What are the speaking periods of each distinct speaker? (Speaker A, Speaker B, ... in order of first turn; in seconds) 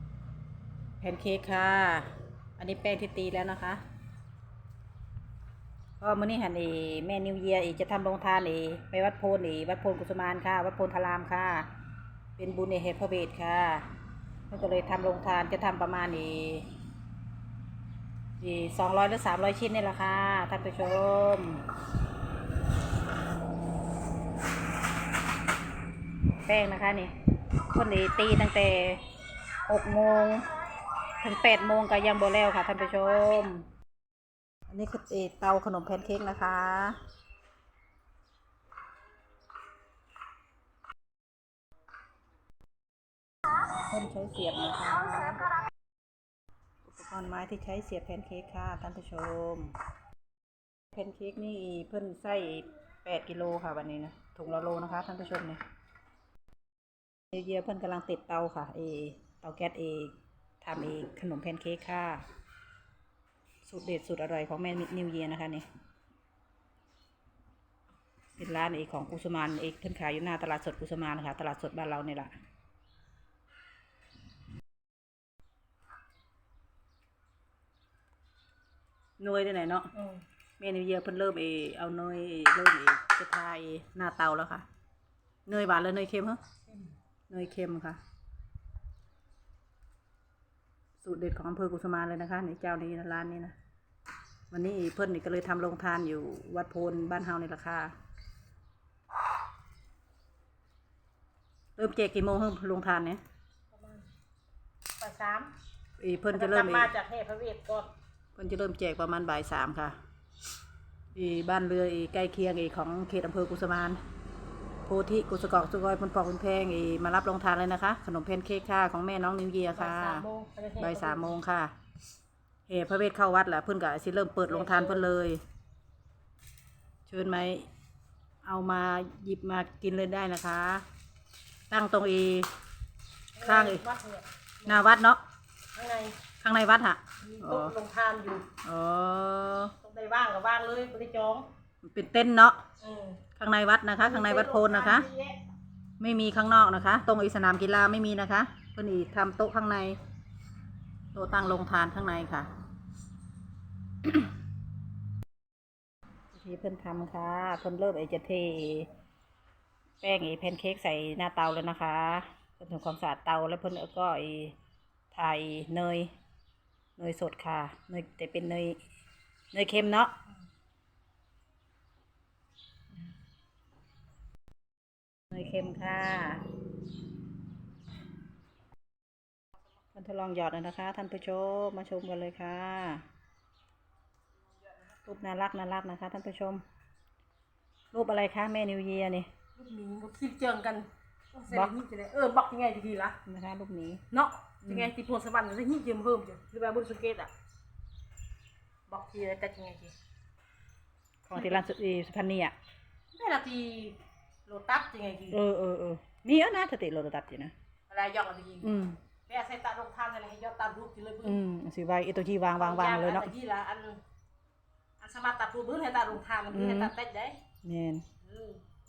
Speaker A: 1.0-3.8, 6.0-11.7, 12.4-13.8, 14.5-16.7, 18.4-21.6, 26.4-27.1, 27.7-29.0, 29.7-30.5, 31.2-33.7, 34.7-37.0, 43.7-45.6, 46.9-49.7, 50.9-55.6, 57.3-62.2, 63.7-65.7, 68.4-72.3, 79.2-79.9, 80.6-84.7, 85.5-86.4, 87.3-88.0, 91.0-93.5, 94.5-97.9, 101.8-103.2, 106.0-106.9, 108.4-110.0, 111.2-114.0, 114.9-120.2, 120.8-121.7, 122.7-125.4, 127.1-127.7, 128.4-130.8, 131.7-132.5, 133.4-133.8, 134.7-135.2, 136.4-137.7, 138.6-139.7, 141.8-142.6, 143.4-145.1, 146.0-150.0, 151.1-152.5, 156.3-158.9, 160.0-164.6, 165.1-166.1, 167.0-168.8, 169.5-170.2, 175.3-176.4, 179.9-183.0, 185.1-186.6, 187.9-189.3, 193.2-194.0, 194.7-194.9, 201.2-202.6, 205.3-207.5, 208.6-209.0, 211.2-213.3, 216.5-216.9, 217.6-218.1
Speaker B: 79.9-80.2, 86.7-87.0, 103.7-104.1, 105.0-105.5, 106.3-107.9, 119.7-121.3, 124.5-125.1, 133.4-134.9, 135.7-136.2, 137.2-138.5, 139.8-141.5, 142.8-143.2, 144.0-145.4, 189.6-193.2, 194.1-197.3, 198.9-200.0, 201.4-201.6, 203.1-205.4, 207.9-211.4, 212.6-214.0, 215.0-217.4, 218.2-218.6